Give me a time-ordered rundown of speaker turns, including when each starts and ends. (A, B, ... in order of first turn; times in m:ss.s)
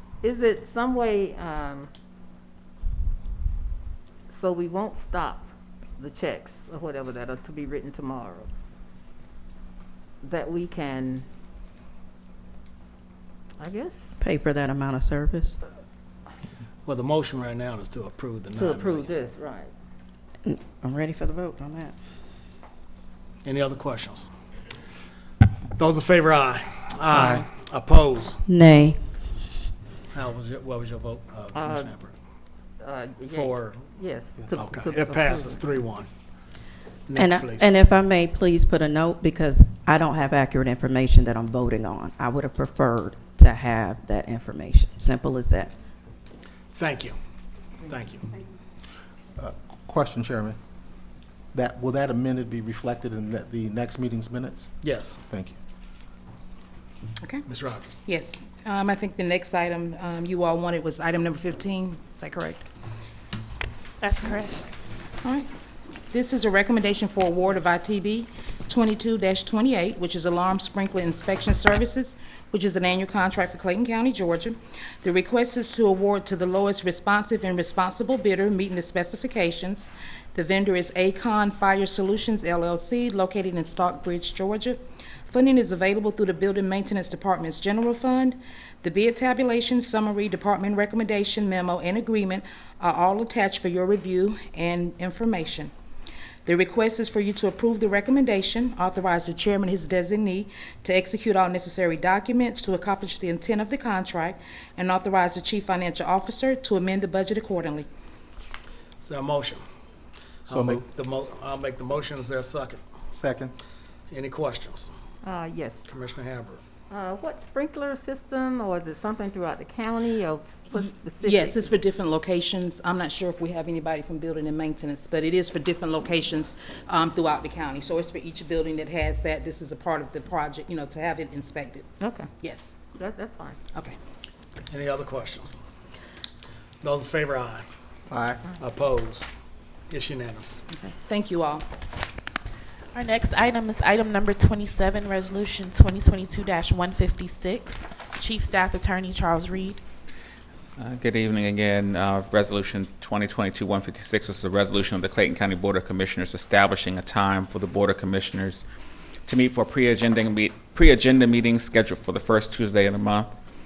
0:00.2-0:01.9 A
0:04.3-0:08.5 A
0:10.2-0:11.2 A
0:13.6-0:14.2 A
0:14.2-0:15.6 B
0:16.9-0:19.2 C
0:18.6-0:19.7 A
0:20.4-0:22.0 B
0:23.4-0:24.3 C
0:25.8-0:28.4 C
0:27.1-0:27.4 D
0:28.4-0:29.0 B
0:30.1-0:32.1 C
0:31.6-0:32.0 A
0:32.8-0:35.6 A
0:33.3-0:34.0 C
0:34.5-0:36.1 C
0:37.1-0:37.7 C
0:37.2-0:45.7 B
0:46.7-0:47.2 C
0:47.8-0:48.3 C
0:49.4-0:50.6 D
0:51.5-0:54.7 D
0:54.8-0:55.2 C
0:55.2-0:55.6 D
0:57.2-0:57.4 E
0:57.5-0:58.0 C
0:58.1-1:02.6 E
1:04.0-1:04.7 F
1:06.1-1:35.7 E
1:36.5-1:47.9 E
1:49.0-1:49.6 C
1:50.5-1:52.8 C
1:50.5-1:50.8 D
1:53.1-1:53.5 D
1:54.1-1:54.9 C
1:55.2-1:55.8 A
1:55.9-1:56.6 C
1:56.9-2:01.7 A
2:01.2-2:11.9 E
2:12.0-2:12.3 A
2:12.4-2:12.7 E
2:13.0-2:13.6 A
2:14.7-2:15.6 C
2:16.8-2:17.7 C
2:18.1-2:18.4 D
2:18.6-2:19.3 C
2:19.9-2:20.6 C
2:20.7-2:21.7 E
2:22.9-2:29.8 F
2:30.8-2:38.6 G
2:39.3-2:43.4 G